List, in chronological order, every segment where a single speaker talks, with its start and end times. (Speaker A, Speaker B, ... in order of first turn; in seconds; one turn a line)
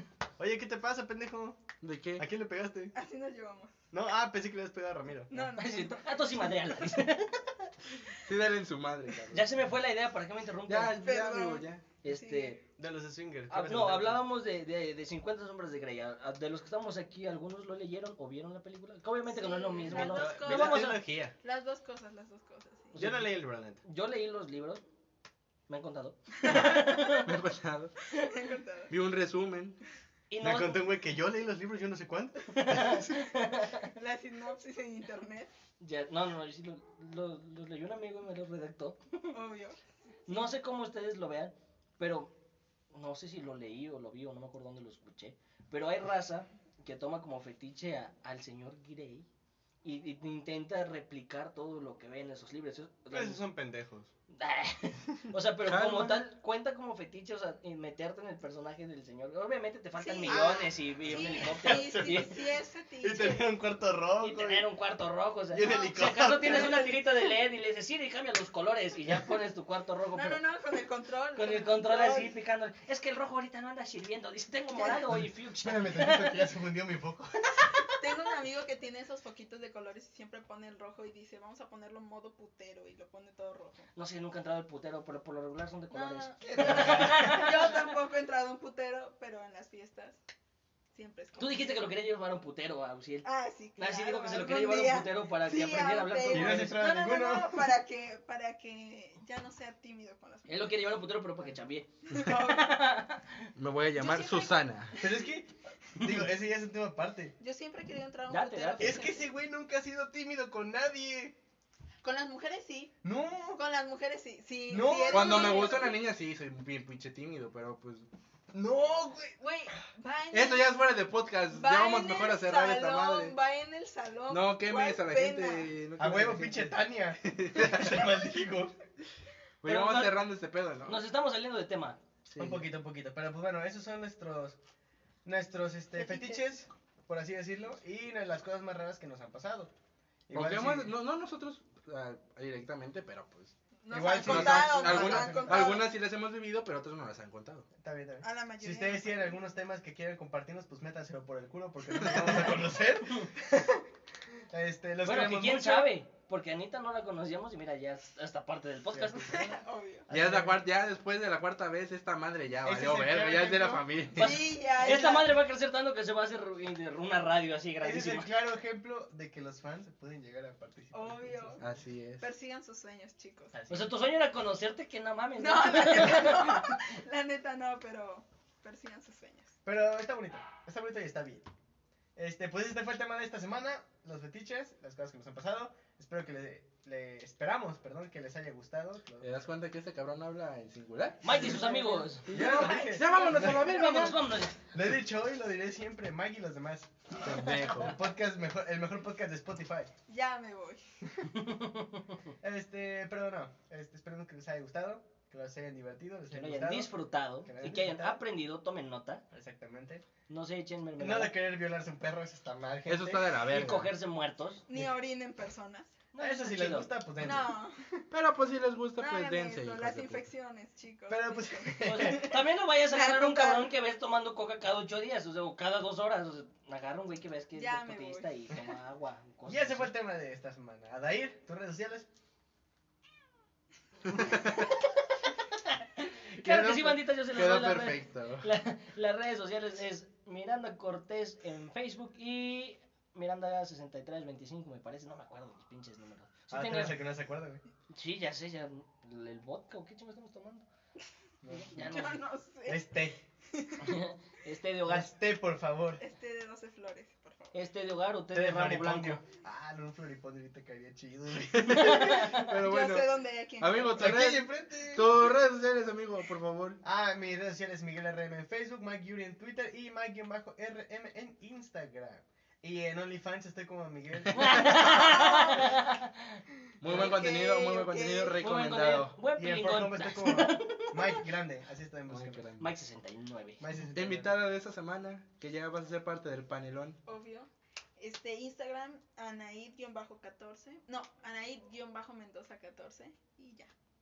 Speaker A: 0.4-1.6
Speaker B: 1.8-2.3
Speaker A: 2.2-2.9
Speaker C: 2.9-3.7
Speaker A: 3.9-5.5
Speaker C: 5.3-6.3
Speaker D: 5.5-7.7
Speaker B: 8.2-9.5
Speaker D: 9.3-11.0
Speaker B: 10.7-11.8
Speaker C: 11.0-12.6
Speaker D: 12.0-12.6
Speaker A: 12.8-14.2
Speaker D: 13.5-21.0
Speaker C: 19.3-23.0
Speaker A: 19.9-21.3
Speaker D: 22.9-24.8
Speaker A: 22.9-23.8
Speaker D: 25.7-27.3
Speaker C: 26.4-27.1
Speaker B: 27.2-27.9
Speaker C: 28.1-28.9
Speaker B: 28.9-29.8
Speaker D: 30.3-30.9
Speaker A: 30.4-33.2
Speaker D: 32.5-33.9
Speaker C: 33.8-35.5
Speaker D: 35.8-39.4
Speaker C: 39.3-39.8
Speaker D: 40.3-42.3
Speaker D: 42.9-49.2
Speaker D: 49.8-53.4
Speaker A: 53.1-54.1
Speaker D: 54.3-62.4
Speaker B: 55.6-56.2
Speaker C: 60.0-63.5
Speaker A: 60.2-62.3
Speaker A: 63.0-64.7
Speaker D: 64.2-70.4
Speaker A: 65.5-66.8
Speaker C: 65.6-67.3
Speaker C: 70.1-72.3
Speaker D: 71.3-76.5
Speaker C: 74.7-75.0
Speaker A: 75.6-77.8
Speaker C: 77.8-83.9
Speaker D: 83.9-87.9
Speaker C: 85.9-90.2
Speaker A: 86.6-87.3
Speaker C: 90.9-91.9
Speaker D: 91.4-96.8
Speaker C: 93.2-101.1
Speaker A: 96.3-97.7
Speaker D: 100.5-103.4
Speaker C: 102.1-103.0
Speaker B: 103.5-105.0
Speaker C: 104.0-105.2
Speaker A: 105.0-107.3
Speaker C: 107.4-109.2
Speaker D: 108.3-109.0
Speaker A: 108.8-111.3
Speaker C: 112.0-112.9
Speaker A: 113.0-113.6
Speaker C: 113.5-116.0
Speaker A: 114.7-115.7
Speaker B: 115.1-118.1
Speaker A: 118.5-119.3
Speaker C: 119.4-120.9
Speaker B: 120.3-123.3
Speaker C: 121.5-125.7
Speaker B: 124.3-128.1
Speaker A: 126.0-128.7
Speaker B: 129.6-131.0
Speaker D: 129.6-130.2
Speaker D: 130.8-132.0
Speaker B: 132.3-132.6
Speaker A: 132.4-134.6
Speaker A: 135.2-139.7
Speaker C: 135.9-136.4
Speaker A: 140.3-140.9
Speaker B: 140.3-143.5
Speaker C: 143.8-145.8
Speaker A: 143.9-145.8
Speaker B: 144.2-147.7
Speaker A: 147.8-153.8
Speaker C: 148.2-149.4
Speaker A: 154.5-155.9
Speaker D: 155.0-159.5
Speaker A: 158.9-159.4
Speaker C: 159.3-160.1
Speaker A: 160.1-160.6
Speaker B: 160.1-164.4
Speaker A: 162.6-163.8
Speaker C: 164.1-165.3
Speaker D: 164.2-168.3
Speaker A: 167.8-171.7
Speaker C: 170.9-171.7
Speaker B: 171.6-172.2
Speaker C: 172.2-173.5
Speaker A: 173.5-173.9
Speaker D: 173.7-176.9
Speaker C: 175.4-179.5
Speaker A: 179.6-181.5
Speaker A: 182.2-189.3
Speaker B: 189.2-191.5
Speaker D: 191.2-192.3
Speaker C: 191.3-193.7
Speaker A: 192.3-193.7
Speaker B: 192.3-194.2
Speaker D: 193.2-194.6
Speaker A: 194.7-199.9
Speaker B: 197.2-198.0
Speaker C: 200.1-200.8
Speaker D: 201.3-202.1
Speaker A: 202.4-206.9
Speaker D: 206.3-209.2
Speaker A: 207.4-208.2
Speaker A: 209.3-210.0
Speaker D: 210.3-211.3
Speaker A: 211.0-213.3
Speaker B: 212.9-213.9
Speaker D: 213.4-214.6
Speaker C: 214.7-215.9
Speaker D: 216.1-216.9
Speaker A: 216.2-217.6
Speaker C: 217.2-217.8
Speaker B: 218.1-220.2
Speaker C: 219.0-223.7
Speaker A: 221.1-222.3
Speaker D: 221.8-229.9
Speaker C: 227.5-228.3
Speaker A: 229.4-232.1
Speaker B: 234.1-234.7
Speaker D: 236.0-247.0
Speaker B: 236.4-238.5
Speaker A: 246.5-247.6
Speaker D: 247.9-250.6
Speaker A: 251.4-251.9
Speaker D: 251.5-252.2
Speaker C: 251.8-252.9
Speaker A: 252.7-253.2
Speaker C: 253.5-254.0
Speaker D: 253.8-255.1
Speaker A: 254.8-256.0
Speaker C: 256.0-257.6
Speaker D: 257.5-259.2
Speaker A: 258.3-261.9
Speaker B: 261.5-266.8
Speaker D: 261.6-262.5
Speaker C: 262.2-264.2
Speaker A: 263.9-265.2
Speaker A: 266.8-275.4
Speaker B: 274.2-274.6
Speaker D: 274.4-276.4
Speaker C: 275.0-275.8
Speaker B: 276.8-279.2
Speaker C: 276.8-278.4
Speaker D: 278.4-281.2
Speaker A: 279.4-282.5
Speaker B: 282.1-282.7
Speaker D: 282.6-283.6
Speaker A: 283.6-284.4
Speaker B: 283.9-287.0
Speaker C: 287.1-293.7